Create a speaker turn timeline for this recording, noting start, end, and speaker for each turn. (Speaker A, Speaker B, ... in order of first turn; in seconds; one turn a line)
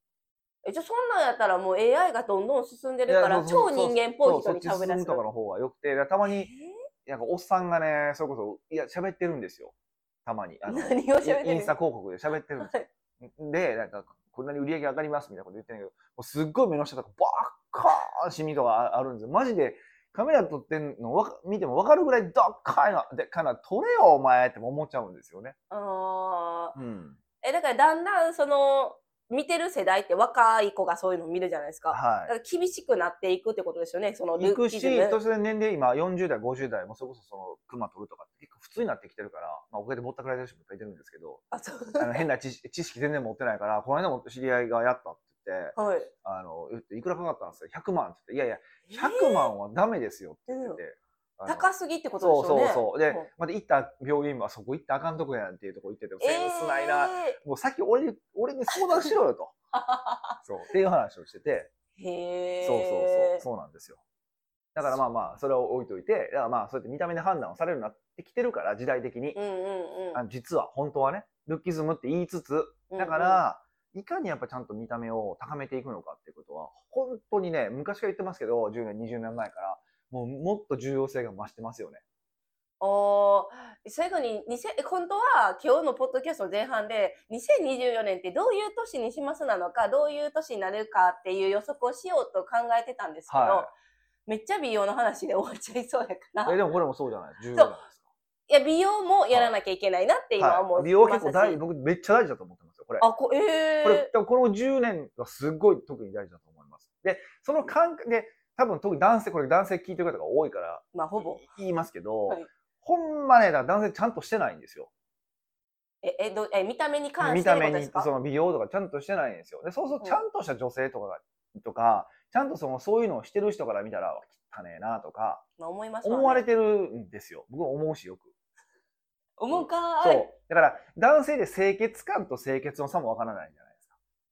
Speaker A: 0.6-5.2
Speaker B: 3.1-6.5
Speaker A: 6.3-6.7
Speaker B: 7.0-9.7
Speaker B: 10.2-25.6
Speaker A: 10.7-11.7
Speaker A: 12.6-12.9
Speaker A: 25.7-26.8
Speaker B: 26.8-27.2
Speaker A: 27.4-35.2
Speaker B: 31.9-32.3
Speaker B: 34.4-41.4
Speaker A: 41.5-42.2
Speaker B: 42.0-59.5
Speaker A: 45.8-46.1
Speaker A: 48.9-49.5
Speaker A: 50.5-50.8
Speaker A: 51.5-53.3
Speaker A: 56.2-57.4
Speaker A: 58.8-59.1
Speaker A: 59.7-60.4
Speaker B: 60.4-61.7
Speaker A: 62.0-63.4
Speaker B: 62.6-64.0
Speaker B: 64.8-69.4
Speaker A: 69.3-70.2
Speaker B: 70.1-82.0
Speaker A: 72.9-73.4
Speaker A: 82.8-93.7
Speaker B: 93.3-93.7
Speaker A: 94.3-96.6
Speaker B: 96.5-98.0
Speaker A: 98.5-101.6
Speaker B: 100.4-103.1
Speaker A: 103.0-104.1
Speaker B: 103.8-114.9
Speaker A: 110.9-111.4
Speaker A: 116.0-118.1
Speaker B: 117.2-125.4
Speaker A: 125.6-126.5
Speaker B: 126.0-128.3
Speaker A: 129.4-130.3
Speaker B: 129.5-133.7